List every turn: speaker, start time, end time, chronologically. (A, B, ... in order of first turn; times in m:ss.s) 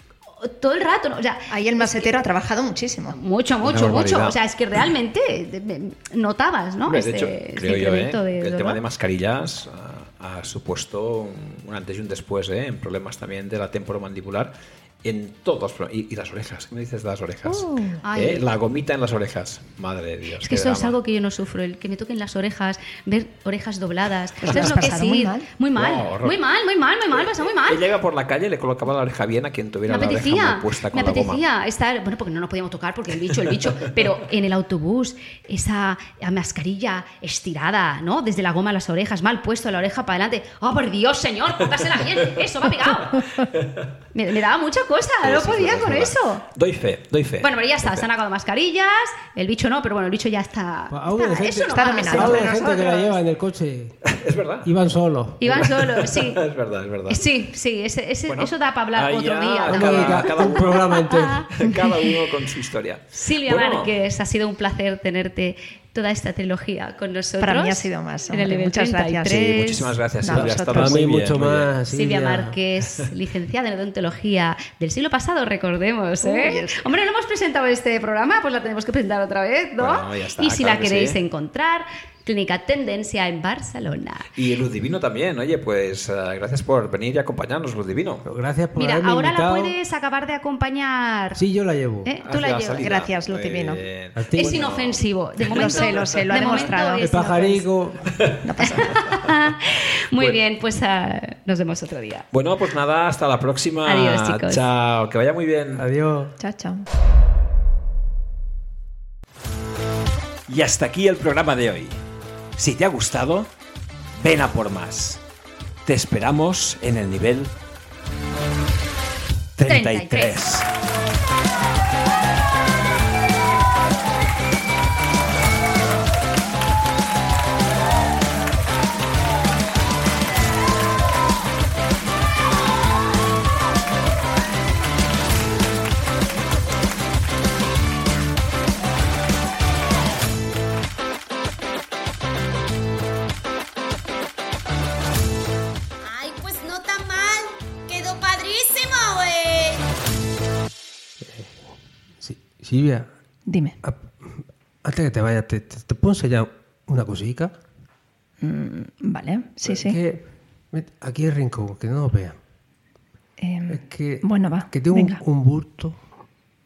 0:00.4-0:02.2 A
0:01.5-0:03.2 B
0:03.1-0:08.8 A
0:03.6-0:04.4 C
0:06.9-0:21.0 C
0:17.4-0:18.0 B
0:18.0-0:18.4 A
0:20.4-0:27.8 A
0:24.4-0:25.5 B
0:25.7-0:26.4 C
0:27.1-0:31.4 C
0:29.9-0:43.4 A
0:43.4-0:43.8 C
0:44.1-0:46.4 A
0:45.2-0:48.1 C
0:47.4-0:52.6 A
0:50.9-0:54.0 D
0:51.1-0:53.2 B
0:54.0-0:54.7 C
0:54.6-0:55.6 D
0:55.4-0:56.4 A
0:55.5-0:57.3 C
0:57.1-1:02.1 A
0:58.3-1:01.0 C
0:59.7-1:01.5 D
1:01.5-1:03.9 C
1:03.1-1:09.9 A
1:07.4-1:09.5 B
1:09.3-1:11.7 C
1:10.2-1:11.0 B
1:10.7-1:12.6 D
1:11.9-1:24.3 A
1:16.2-1:16.8 B
1:19.8-1:21.2 C
1:24.3-1:28.2 C
1:28.2-1:29.7 D
1:28.8-1:31.4 A
1:31.3-1:32.1 D
1:32.0-1:32.9 A
1:32.2-1:35.0 C
1:32.8-1:33.8 B
1:34.1-1:34.8 D
1:34.3-1:37.1 A
1:35.4-1:37.7 B
1:35.5-1:36.6 C
1:37.0-1:38.2 D
1:38.2-1:39.1 C
1:38.4-1:39.2 B
1:38.6-1:42.3 A
1:42.3-1:45.9 C
1:43.8-1:44.6 A
1:45.8-1:46.3 D
1:46.4-1:46.8 B
1:50.5-1:52.0 C
1:52.6-1:53.5 C
1:54.1-1:55.2 C
1:55.8-1:57.5 C
1:59.6-2:00.7 C
1:59.6-2:00.4 A
2:26.0-2:29.9 E
2:31.2-2:31.7 D
2:32.2-2:33.1 D
2:33.5-2:33.8 B
2:33.8-2:37.5 D
2:38.4-2:40.0 B
2:39.6-2:42.4 D
2:43.4-2:45.2 B
2:43.7-2:46.0 D